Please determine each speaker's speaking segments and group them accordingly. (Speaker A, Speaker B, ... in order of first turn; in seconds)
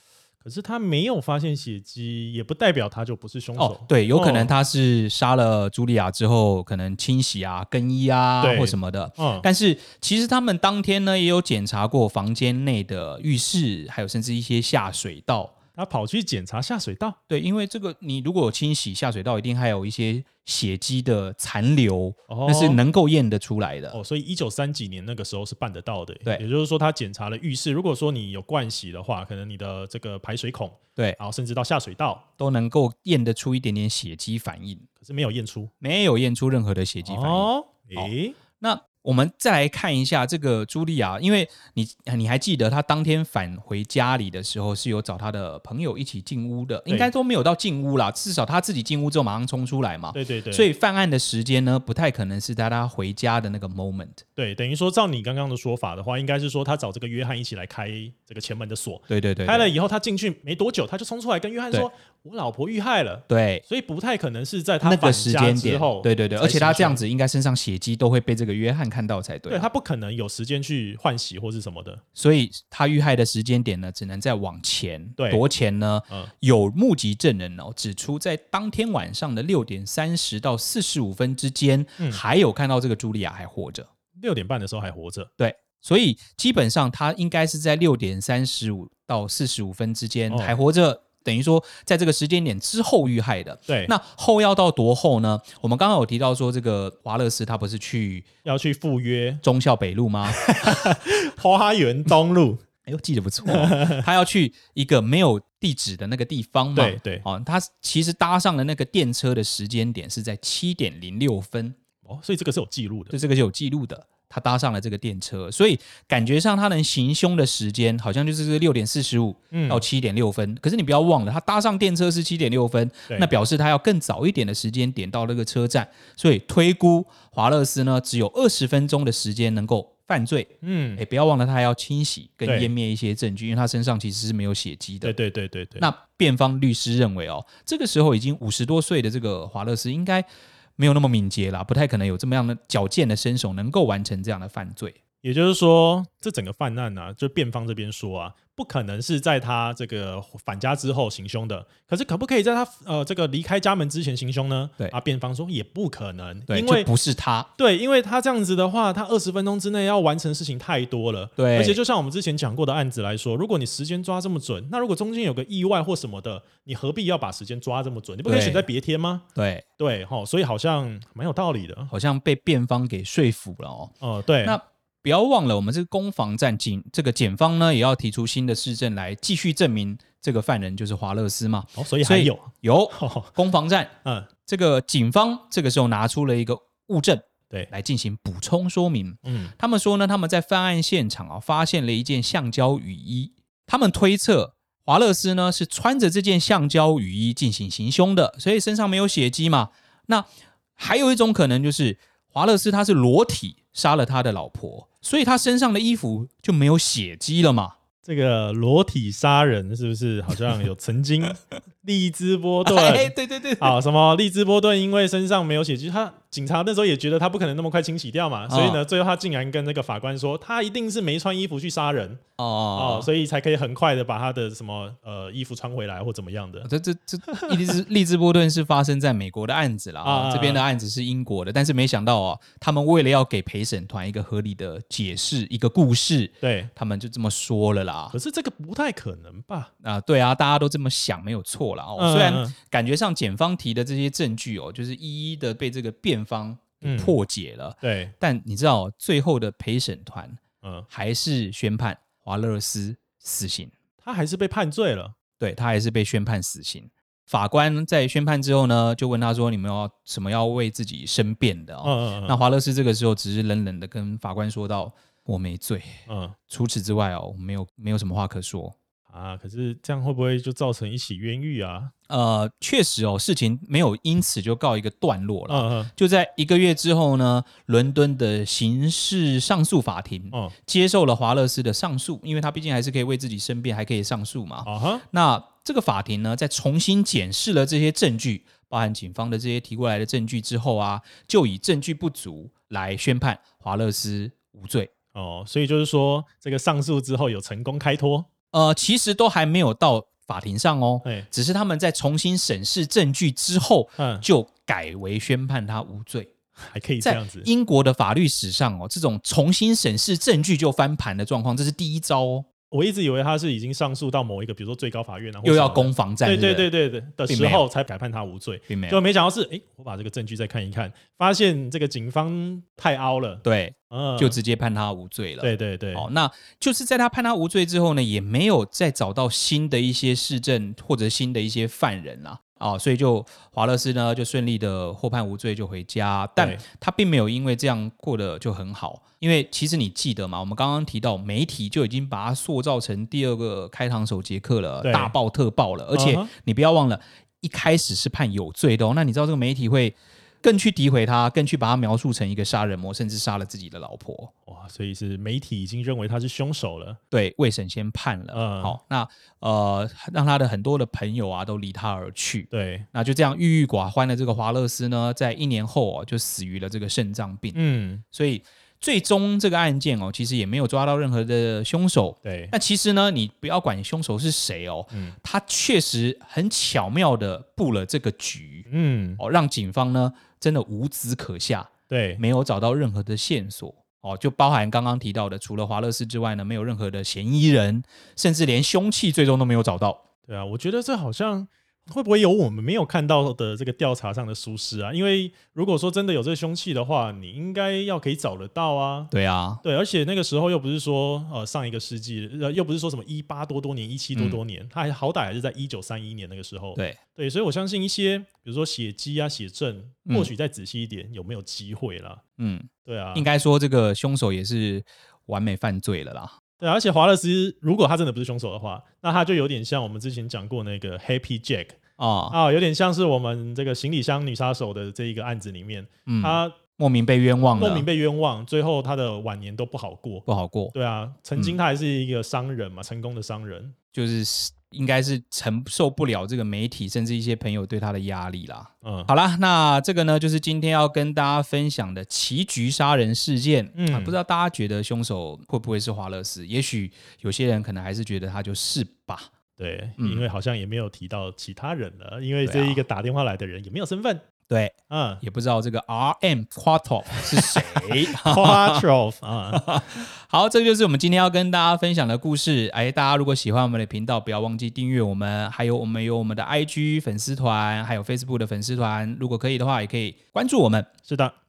Speaker A: 0.4-4.5, 8.4-9.5, 15.8-17.2, 22.3-22.8, 23.9-32.2, 35.0-35.7, 37.1-38.4, 50.1-50.7, 54.4-67.0, 69.5-72.0, 75.2-75.4, 84.2-85.3, 90.3-90.6, 93.7-93.9, 98.5-99.4, 100.3-102.6, 103.5-104.1, 106.8-107.3, 112.0-113.2, 119.5-119.8, 130.6-131.0, 132.5-132.7, 135.0-135.9, 145.2-156.9, 157.6-169.3, 169.8-171.9, 174.0-174.6, 181.8-183.3, 184.0-184.3, 189.2-189.5, 208.0-222.2, 222.8-226.7, 230.0-230.6, 236.4-236.7, 238.1-239.7, 242.0-242.6, 246.8-247.2, 247.8-248.1, 250.6-250.9, 254.0-255.2, 261.8-262.4, 266.1-266.4, 269.1-271.9, 275.5-275.9, 284.6-285.0, 295.1-298.3, 304.0-304.2, 306.6-307.5, 312.7-324.4, 325.4-326.1, 336.4-336.6, 344.8-345.1, 345.9-346.3, 354.5-357.0, 358.3-358.8, 362.5-362.9, 367.6-368.0, 372.2-372.5, 378.7-379.2, 381.9-382.2, 390.3-399.1, 399.6-412.2, 412.9-413.3, 416.6-421.8, 422.3-426.6, 427.6-433.8, 438.8-439.1, 443.8-444.2, 449.6-454.2, 454.9-455.2, 457.3-459.8, 471.1-471.4
Speaker B: 3.6-15.6, 17.3-24.0, 32.4-34.9, 35.8-54.2, 59.1-59.7, 63.3-63.6, 64.8-69.7, 72.2-83.9, 85.4-98.3, 99.4-100.9, 102.9-111.8, 113.1-135.2, 135.8-140.3, 140.8-145.0, 156.5-157.5, 161.4-161.8, 168.3-168.7, 169.3-169.7, 171.9-183.9, 184.5-207.8, 212.7-213.7, 218.5-218.8, 222.4-223.1, 226.7-238.2, 239.8-253.7, 255.4-268.8, 272.1-294.9, 298.5-306.3, 307.0-312.5, 315.4-316.7, 317.3-317.6, 318.7-319.0, 323.4-354.3, 357.1-367.6, 368.1-390.0, 399.1-399.6, 404.1-404.4, 412.4-416.4, 422.0-422.4, 426.1-427.9, 430.3-430.7, 433.9-449.3, 450.0-450.2, 452.4-452.8, 454.5-458.8, 459.5-470.9